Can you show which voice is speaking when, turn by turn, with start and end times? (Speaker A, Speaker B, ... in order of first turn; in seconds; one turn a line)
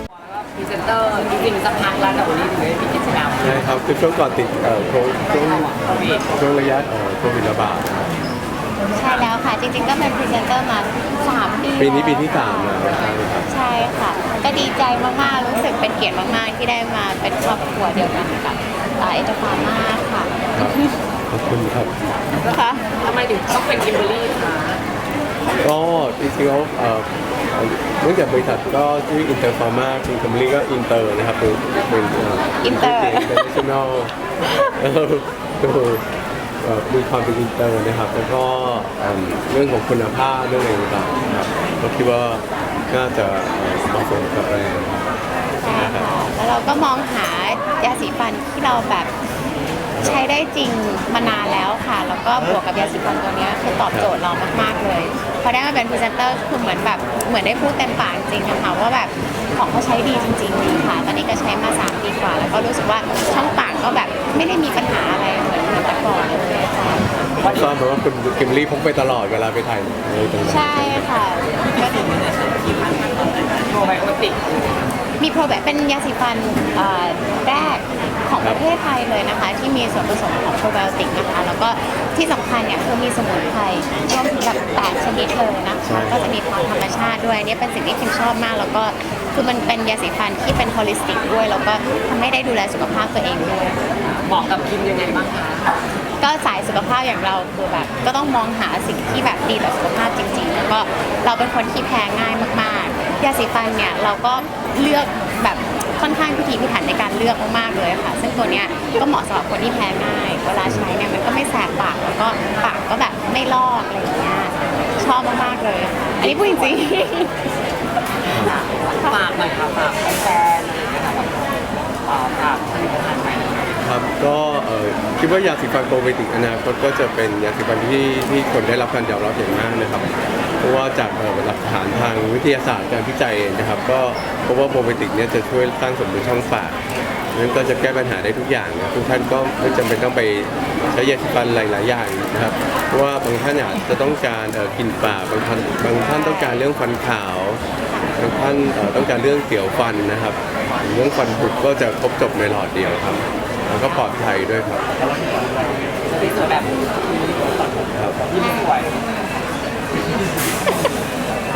Speaker A: 0.2-3.6
Speaker B: 3.4-8.1
Speaker A: 5.3-6.3
Speaker C: 8.9-21.0
Speaker B: 11.8-13.5
Speaker B: 21.3-21.9
Speaker C: 22.4-22.8
Speaker A: 22.4-24.8
Speaker B: 25.6-34.1
Speaker C: 32.6-33.4
Speaker B: 34.8-36.0
Speaker B: 36.6-45.0
Speaker C: 45.6-49.1
Speaker B: 45.7-46.1
Speaker B: 49.9-50.2
Speaker C: 50.0-67.1
Speaker B: 53.9-54.1
Speaker B: 67.4-71.0
Speaker A: 67.4-67.7
Speaker C: 70.4-72.4
Speaker A: 73.3-74.6
Speaker C: 75.2-93.8
Speaker B: 85.8-86.3
Speaker A: 94.1-95.7
Speaker C: 96.2-117.3
Speaker B: 110.6-110.9
Speaker A: 116.2-116.8
Speaker B: 118.3-118.5
Speaker A: 118.3-123.8
Speaker B: 123.8-136.8
Speaker B: 137.3-147.6
Speaker C: 146.1-146.6
Speaker C: 147.9-148.2
Speaker B: 148.2-154.8
Speaker A: 155.2-158.9
Speaker B: 157.9-158.2
Speaker C: 158.4-159.5